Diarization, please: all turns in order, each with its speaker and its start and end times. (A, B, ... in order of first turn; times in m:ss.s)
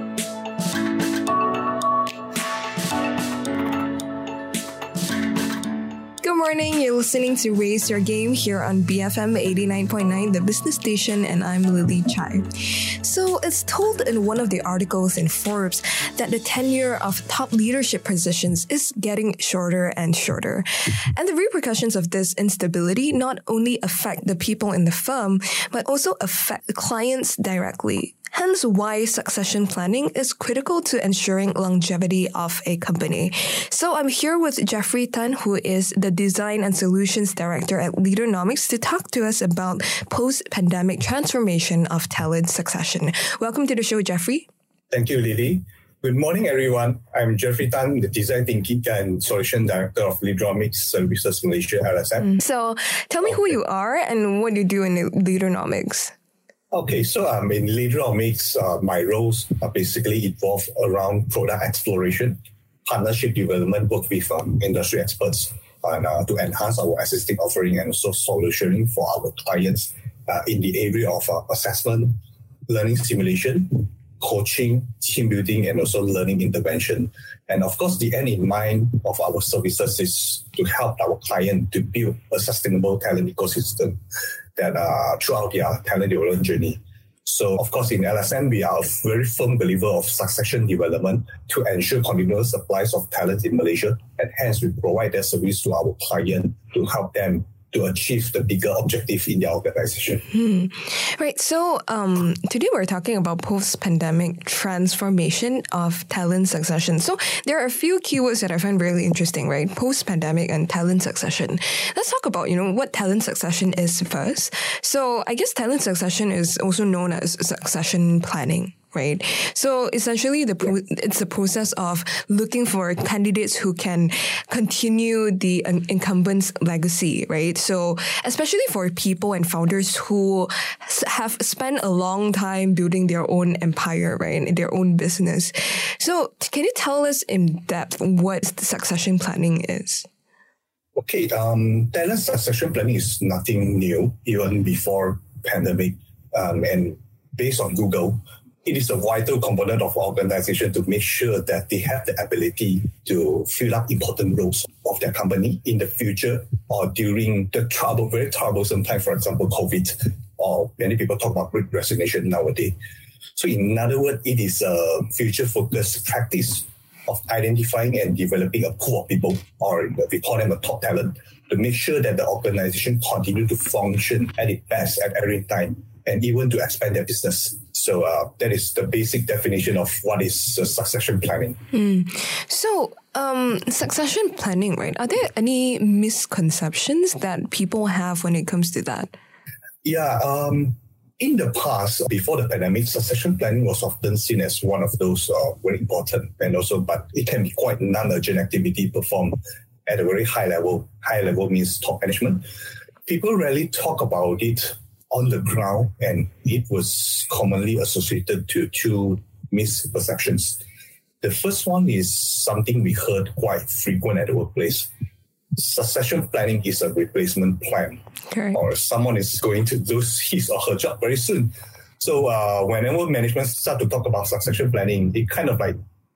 0:06.2-0:44.5 A
0:44.9-0:52.4 B
0:52.4-0:56.1 A
0:56.7-1:24.0 B
1:24.5-1:40.3 B
1:40.3-2:20.1 A
2:20.9-2:42.8 B
2:43.4-3:01.6 B
3:01.7-3:09.1 A
3:09.8-3:22.5 B
3:23.0-3:30.6 B
3:31.2-3:34.9 B
3:35.5-3:45.8 B
3:38.3-3:38.6 A